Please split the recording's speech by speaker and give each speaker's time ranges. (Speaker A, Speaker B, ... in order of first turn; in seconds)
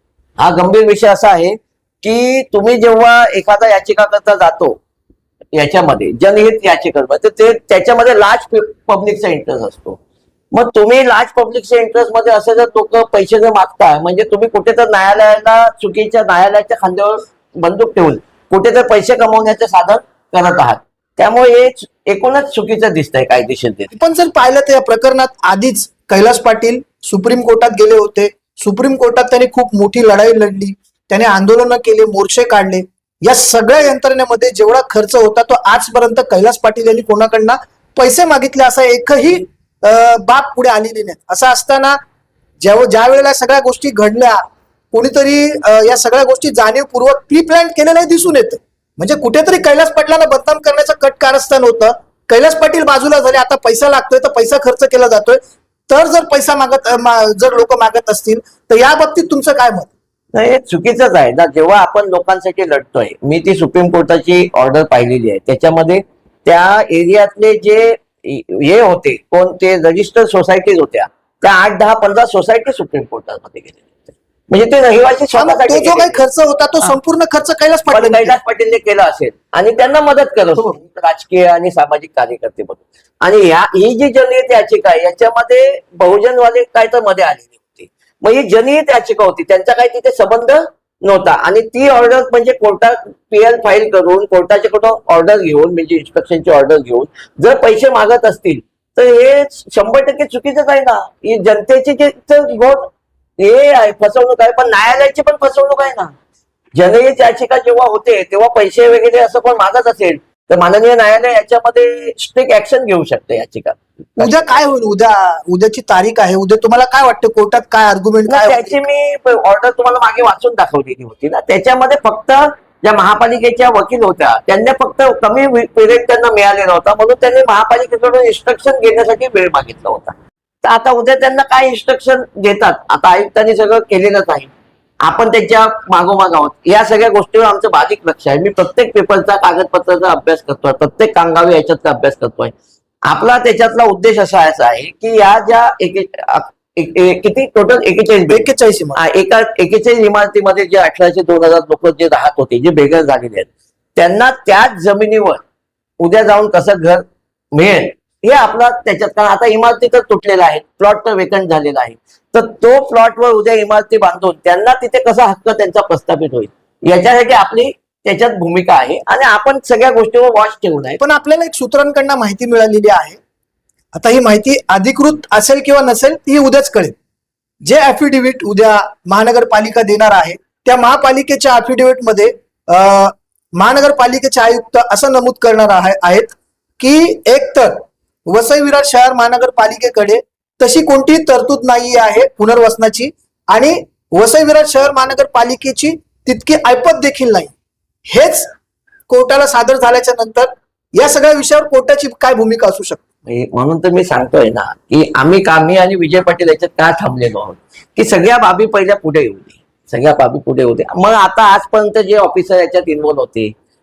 Speaker A: 0.4-4.8, 5.5-10.0, 10.5-23.9, 60.3-76.2, 77.9-106.1, 106.7-114.6, 118.3-134.5, 135.0-142.5, 143.1-155.4, 156.0-171.0, 203.3-213.5
Speaker B: 23.9-42.0, 42.6-44.4, 44.9-59.9, 75.3-78.3, 114.2-118.8, 148.3-149.0, 171.0-173.2, 173.9-176.9, 177.6-197.5, 198.1-198.5, 199.1-203.0